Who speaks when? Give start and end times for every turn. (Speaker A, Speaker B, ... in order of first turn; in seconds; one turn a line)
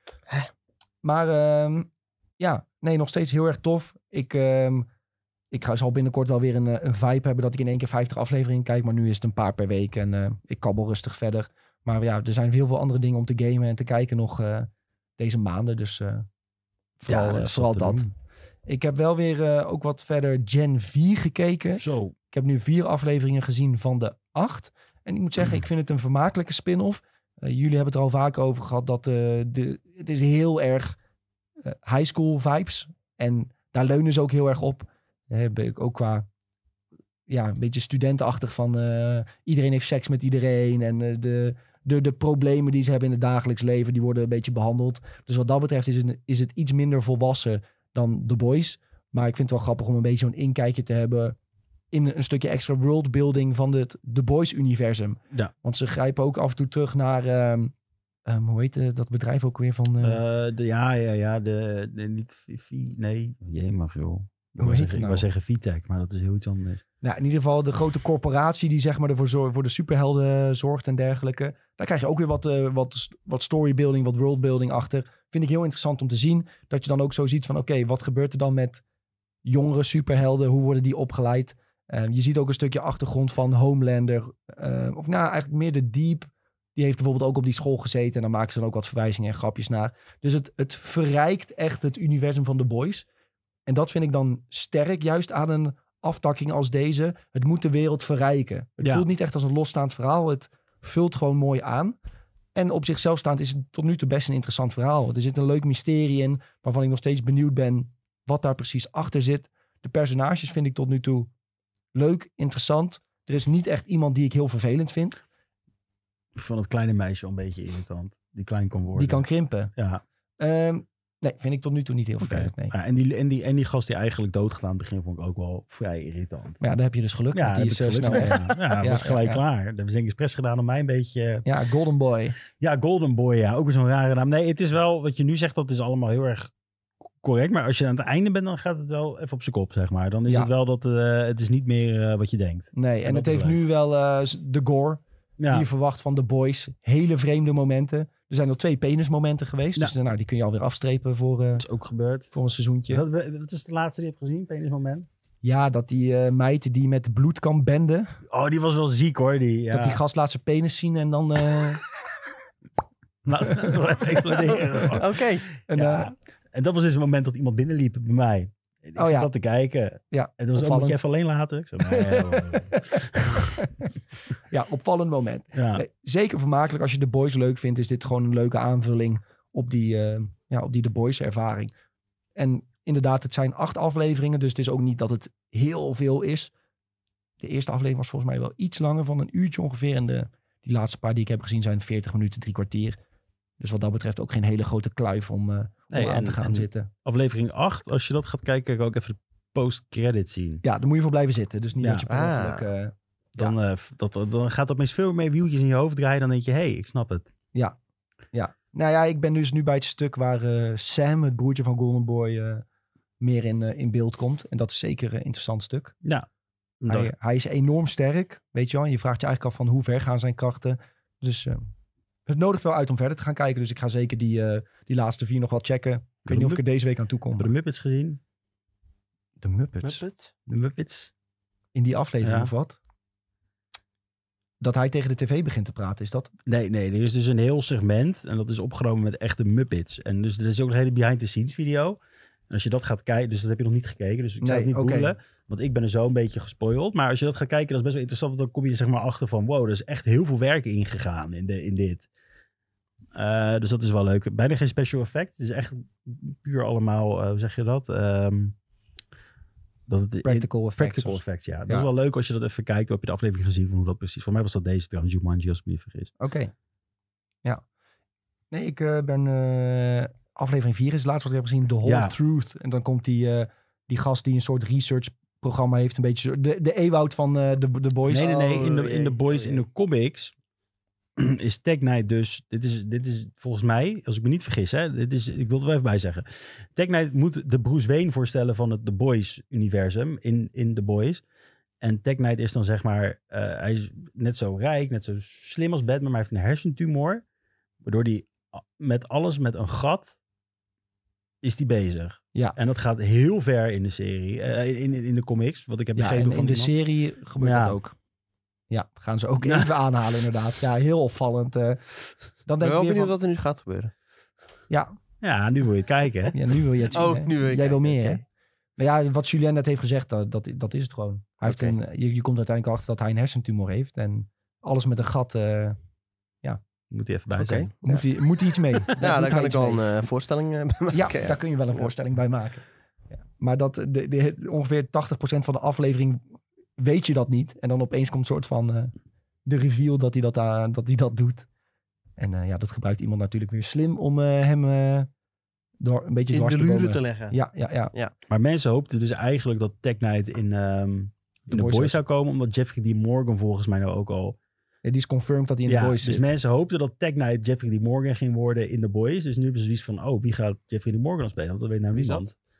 Speaker A: 1.0-1.9
Speaker A: 2.4-4.9
Speaker A: 5.5-16.2
Speaker A: 17.0-18.1
Speaker B: 17.1-18.1
Speaker A: 18.6-30.9
Speaker B: 21.8-22.1
Speaker A: 31.6-36.2
Speaker A: 37.3-51.4
Speaker A: 51.9-57.7
Speaker A: 58.2-60.2
Speaker B: 60.0-66.8
Speaker A: 64.6-65.2
Speaker A: 67.0-78.8
Speaker A: 79.4-93.0
Speaker A: 93.7-101.9
Speaker A: 102.5-111.3
Speaker A: 111.9-115.2
Speaker B: 116.3-119.2
Speaker A: 119.0-119.7
Speaker B: 119.8-120.0
Speaker A: 120.4-122.7
Speaker B: 122.2-126.6
Speaker A: 126.6-129.4
Speaker B: 127.3-131.4
Speaker A: 131.4-132.4
Speaker B: 132.5-136.5
Speaker B: 137.2-143.6
Speaker A: 142.7-151.7
Speaker B: 145.4-145.7
Speaker B: 151.6-152.3
Speaker A: 152.3-153.0
Speaker B: 152.9-155.1
Speaker A: 155.4-158.2
Speaker B: 158.3-160.0
Speaker A: 159.7-161.8
Speaker B: 163.2-173.6
Speaker C: 164.9-165.5
Speaker A: 165.7-166.1
Speaker A: 169.0-169.3
Speaker A: 170.1-171.0
Speaker A: 171.9-173.9
Speaker A: 174.5-181.7
Speaker B: 175.5-175.8
Speaker A: 182.3-186.5
Speaker A: 187.4-193.0
Speaker A: 193.6-196.9
Speaker B: 195.9-200.6
Speaker A: 200.6-203.5
Speaker B: 201.8-202.0
Speaker C: 202.1-202.7
Speaker B: 203.4-207.3
Speaker A: 208.3-212.6
Speaker A: 213.2-215.9
Speaker B: 216.8-217.1
Speaker A: 216.9-221.6
Speaker A: 222.3-227.5
Speaker B: 226.2-226.6
Speaker B: 227.4-228.2
Speaker A: 229.4-230.0
Speaker C: 229.8-230.3
Speaker B: 230.5-231.1
Speaker A: 231.7-232.8
Speaker B: 232.2-232.5
Speaker A: 234.6-236.3
Speaker B: 236.4-242.0
Speaker B: 242.5-252.1
Speaker A: 244.4-245.1
Speaker B: 253.1-258.6
Speaker B: 259.9-266.1
Speaker A: 260.2-261.9
Speaker A: 266.2-266.5
Speaker A: 268.5-278.3
Speaker B: 271.8-272.1
Speaker B: 278.1-280.3
Speaker C: 278.2-279.6
Speaker B: 281.2-291.2
Speaker B: 291.8-297.2
Speaker B: 297.8-300.2
Speaker B: 301.4-306.7
Speaker A: 305.9-307.9
Speaker B: 307.4-307.8
Speaker A: 308.7-311.8
Speaker B: 309.4-309.8
Speaker A: 312.4-313.1
Speaker C: 312.6-313.9
Speaker B: 315.2-316.4
Speaker A: 316.3-318.2
Speaker C: 316.9-318.2
Speaker A: 318.8-325.8
Speaker C: 321.4-321.8
Speaker B: 326.9-327.7
Speaker C: 327.4-331.9
Speaker A: 327.8-329.9
Speaker A: 330.9-332.6
Speaker A: 333.4-336.2
Speaker A: 336.8-338.9
Speaker A: 339.4-341.5
Speaker A: 342.2-345.1
Speaker A: 345.8-347.9
Speaker C: 346.3-347.4
Speaker B: 348.3-354.4
Speaker A: 351.5-352.0
Speaker A: 354.8-356.3
Speaker B: 355.7-362.4
Speaker C: 361.9-362.2